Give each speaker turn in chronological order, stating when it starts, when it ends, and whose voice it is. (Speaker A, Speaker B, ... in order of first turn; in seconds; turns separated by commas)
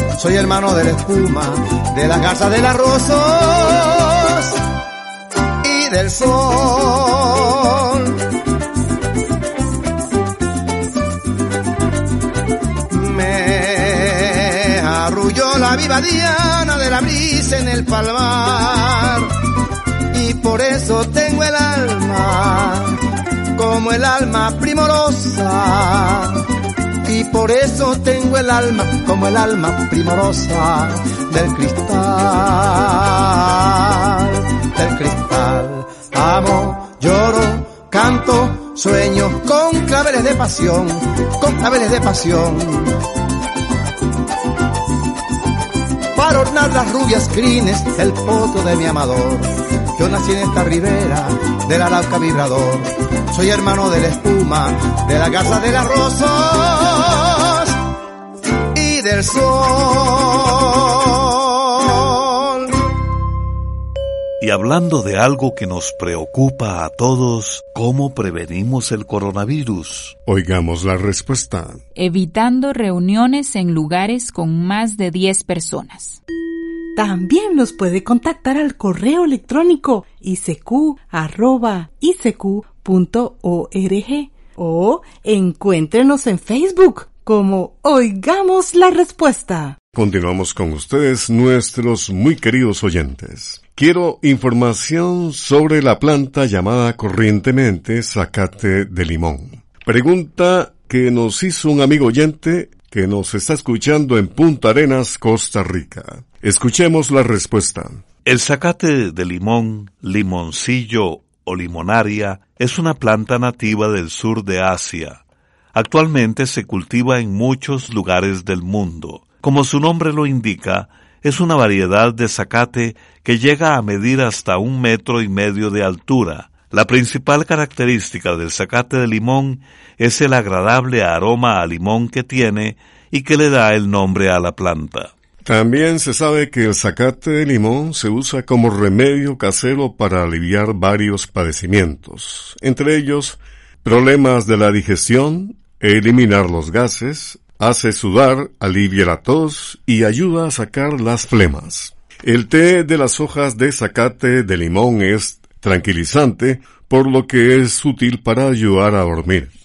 Speaker A: 0.1-4.6, Speaker A: 5.6-8.2, Speaker A: 12.9-19.3, Speaker A: 20.1-23.0, Speaker A: 23.6-26.4, Speaker A: 27.0-43.0, Speaker A: 46.1-57.7, Speaker A: 58.7-62.7, Speaker B: 64.4-70.1, Speaker C: 70.2-71.8, Speaker D: 72.0-76.2, Speaker E: 77.0-89.8, Speaker C: 89.9-108.0, Speaker B: 108.2-115.2, Speaker B: 115.7-135.1, Speaker C: 135.4-159.5